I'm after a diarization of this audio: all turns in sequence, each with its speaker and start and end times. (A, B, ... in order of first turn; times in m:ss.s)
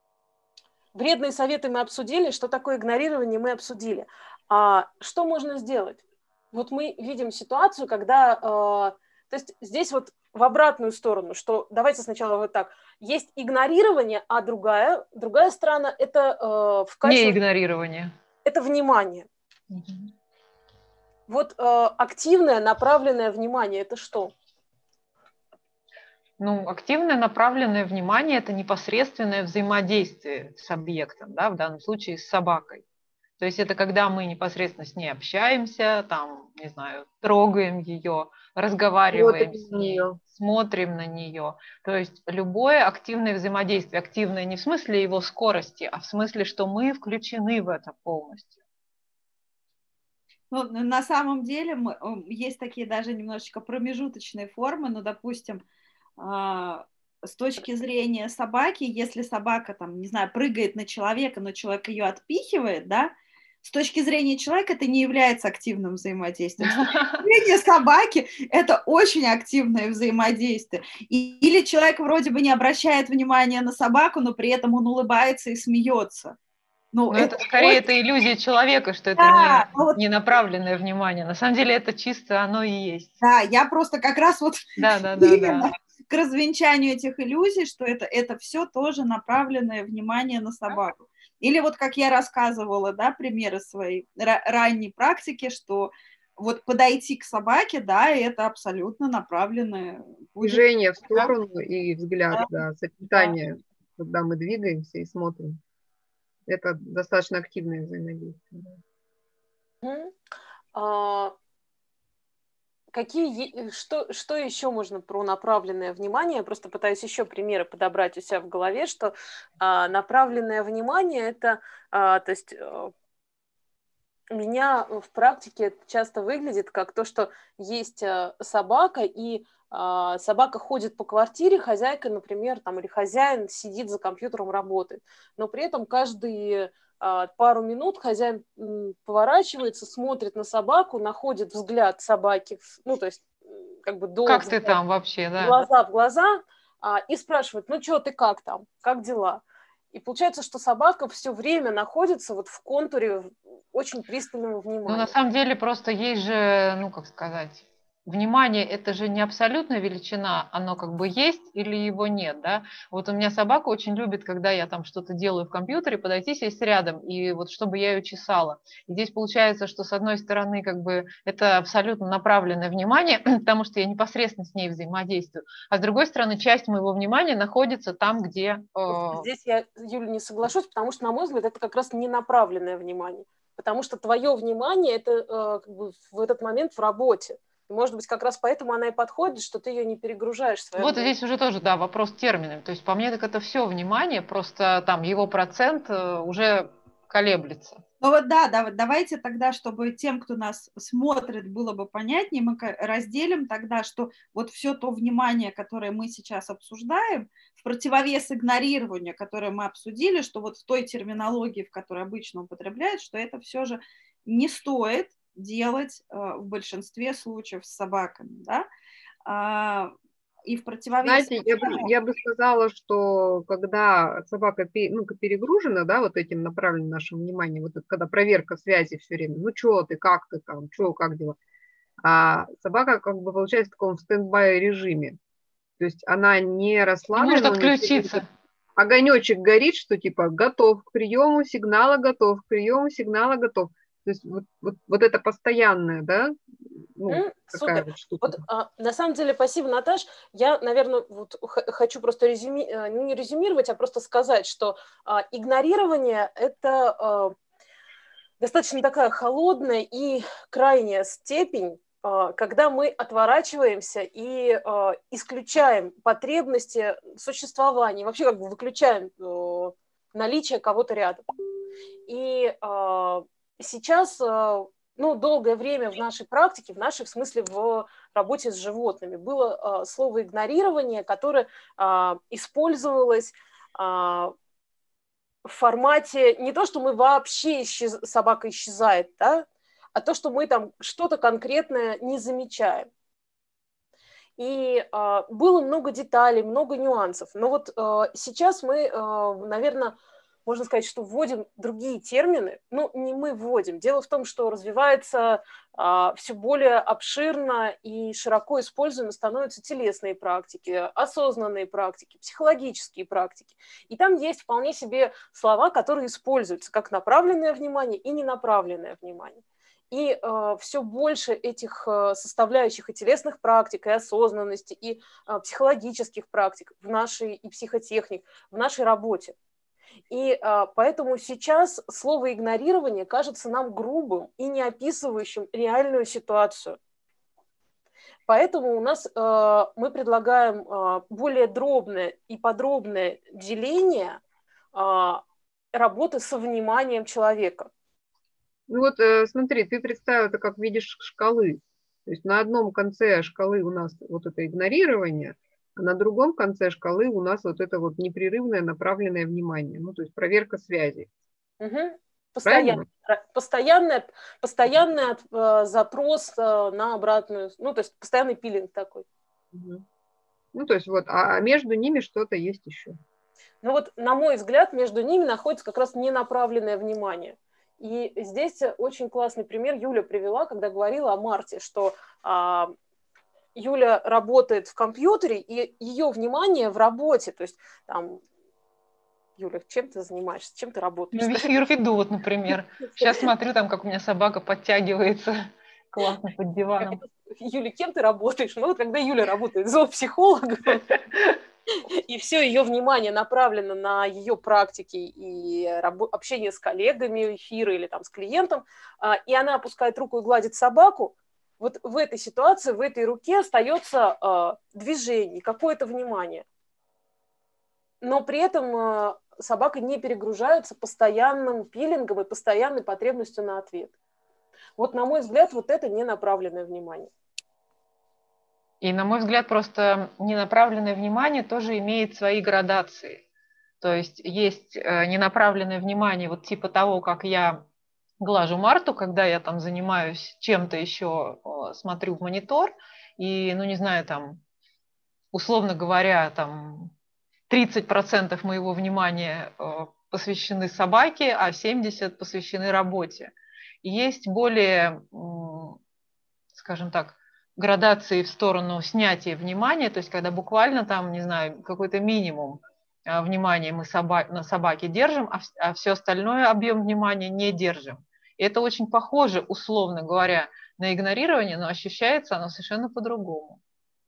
0:00.9-0:06.0 A
0:06.5-0:17.4 A
0:17.0-0:18.1 B
0:18.4-0:19.3 A
0:19.7-0:20.1 B
0:21.3-0:24.3 A
0:26.4-0:32.8 B
0:33.4-0:48.5 B
0:39.1-0:40.2 C
0:50.5-0:55.6 D
0:56.2-1:03.1 D
1:03.6-1:16.4 D
1:06.7-1:07.2 B
1:16.9-1:17.8 D
1:17.1-1:23.1 B
1:19.2-1:20.0 D
1:23.2-1:40.6 D
1:24.8-1:25.7 B
1:40.4-1:45.6 C
1:46.5-1:48.8 C
1:49.8-1:50.1 A
1:50.7-1:51.3 A
1:52.9-2:02.9 A
2:04.3-2:24.8 A
2:24.2-2:25.6 B
2:25.4-2:29.4 A
2:29.9-2:35.1 A
2:34.9-2:59.3 B
2:58.9-3:11.1 A
3:10.8-3:17.8 B
3:18.0-3:38.6 D
3:39.2-3:39.9 D
3:40.4-3:41.9 D
3:41.0-3:51.4 C
3:52.0-3:55.2 C
3:55.8-3:58.2 C
3:57.2-3:58.3 B
3:58.8-4:08.4 C
4:07.1-4:17.3 A
4:18.4-4:31.2 A
4:32.1-4:44.3 A
4:45.4-4:52.9 A
4:54.4-5:29.3 A
5:30.1-5:36.8 A
5:38.3-5:44.2 A
5:44.7-5:47.7 A
5:48.7-6:01.1 C
6:01.6-6:09.0 A
6:02.4-6:02.8 C
6:09.5-6:09.8 C
6:10.5-6:12.9 C
6:13.6-6:22.7 A
6:23.5-6:28.2 A
6:29.4-6:31.5 A
6:31.1-6:37.0 B
6:36.8-6:40.9 A
6:41.9-6:56.4 A
6:58.0-7:03.9 A
7:04.8-7:07.1 A
7:08.8-7:13.2 B
7:13.8-7:17.6 B
7:18.2-7:24.4 B
7:25.3-7:26.9 B
7:27.5-7:33.3 B
7:33.8-7:35.8 B
7:36.5-7:53.6 B